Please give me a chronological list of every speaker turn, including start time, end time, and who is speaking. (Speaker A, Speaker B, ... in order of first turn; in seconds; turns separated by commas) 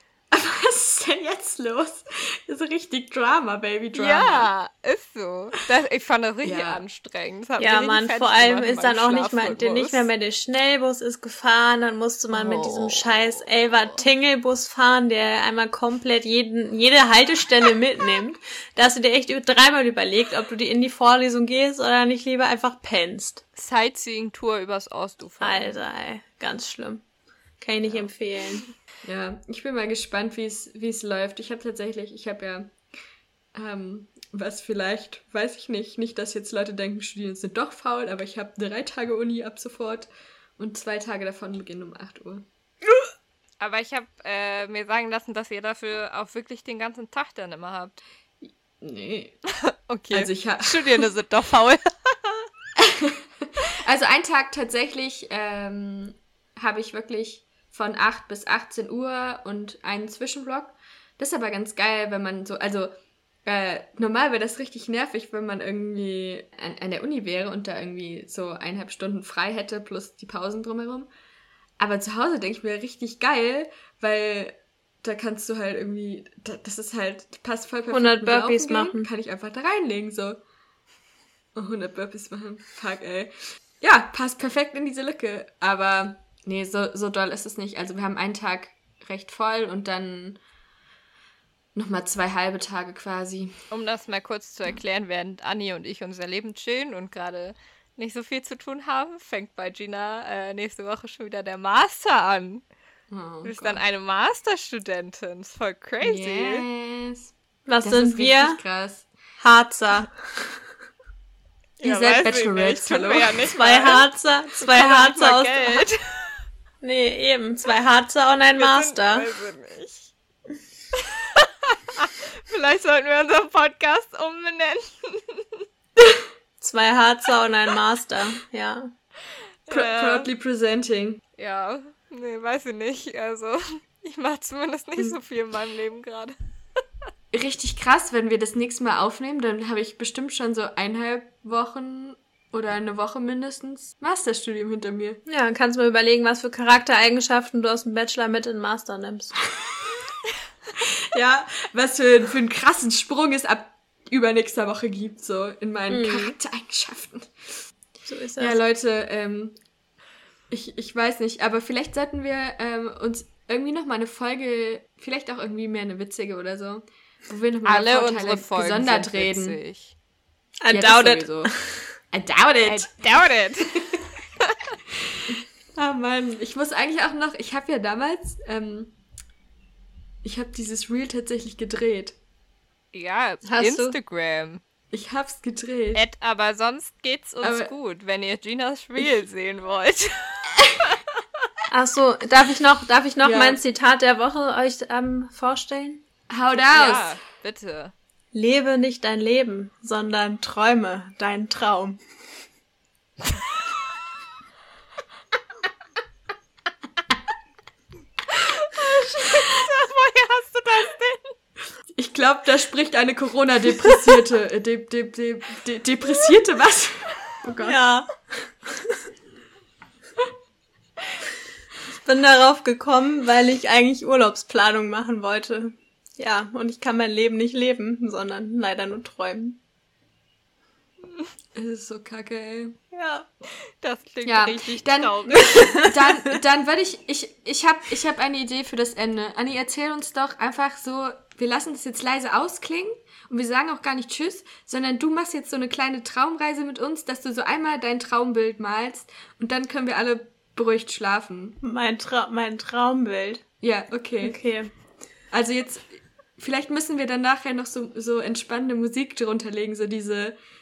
Speaker A: 0.3-4.5, Speaker B: 3.9-10.1, Speaker A: 6.4-6.8, Speaker C: 7.6-23.4, Speaker B: 12.3-14.0, Speaker B: 23.6-25.8, Speaker C: 25.4-27.0, Speaker C: 27.6-28.6, Speaker B: 27.8-28.6, Speaker A: 29.0-32.7, Speaker A: 33.5-42.5, Speaker B: 43.6-48.0, Speaker A: 48.5-49.4, Speaker B: 49.9-52.5, Speaker A: 50.1-51.0, Speaker A: 52.8-53.2, Speaker A: 53.7-71.1, Speaker A: 71.8-80.4, Speaker C: 77.9-79.1, Speaker A: 81.5-90.4, Speaker A: 91.7-93.5, Speaker B: 93.7-102.6, Speaker A: 103.1-103.8, Speaker B: 103.4-106.6, Speaker A: 106.0-109.1, Speaker C: 107.7-108.6, Speaker C: 109.4-110.1, Speaker B: 111.8-114.1, Speaker A: 111.8-113.5, Speaker C: 113.5-115.8, Speaker B: 114.6-116.3, Speaker C: 116.8-119.3, Speaker B: 118.5-120.1, Speaker B: 121.0-125.6, Speaker C: 126.6-128.9, Speaker B: 129.7-130.3, Speaker A: 129.7-131.2, Speaker B: 131.4-136.3, Speaker A: 137.3-145.2, Speaker C: 145.2-149.5, Speaker A: 150.9-157.3, Speaker C: 155.9-156.3, Speaker C: 158.1-158.6, Speaker A: 158.4-159.6, Speaker A: 160.5-169.6, Speaker B: 167.6-169.9, Speaker C: 170.6-171.8, Speaker A: 170.7-171.5, Speaker A: 172.1-172.9, Speaker B: 172.7-173.7, Speaker B: 174.4-174.7, Speaker A: 175.3-178.9, Speaker A: 180.2-182.2, Speaker B: 182.9-184.6, Speaker C: 183.4-183.9, Speaker A: 184.9-186.0, Speaker B: 185.9-191.0, Speaker A: 187.4-187.7, Speaker C: 191.7-196.0, Speaker A: 193.2-193.6, Speaker A: 196.3-197.2, Speaker B: 196.6-197.9, Speaker C: 198.3-202.0, Speaker B: 208.3-211.3, Speaker A: 212.0-217.8, Speaker C: 217.6-218.1, Speaker C: 221.9-229.6, Speaker A: 231.6-232.8, Speaker C: 232.9-233.3, Speaker B: 233.8-235.8, Speaker A: 234.2-251.6, Speaker C: 235.5-235.9, Speaker C: 251.6-253.4, Speaker A: 253.6-254.4, Speaker C: 254.2-254.7, Speaker A: 255.3-260.4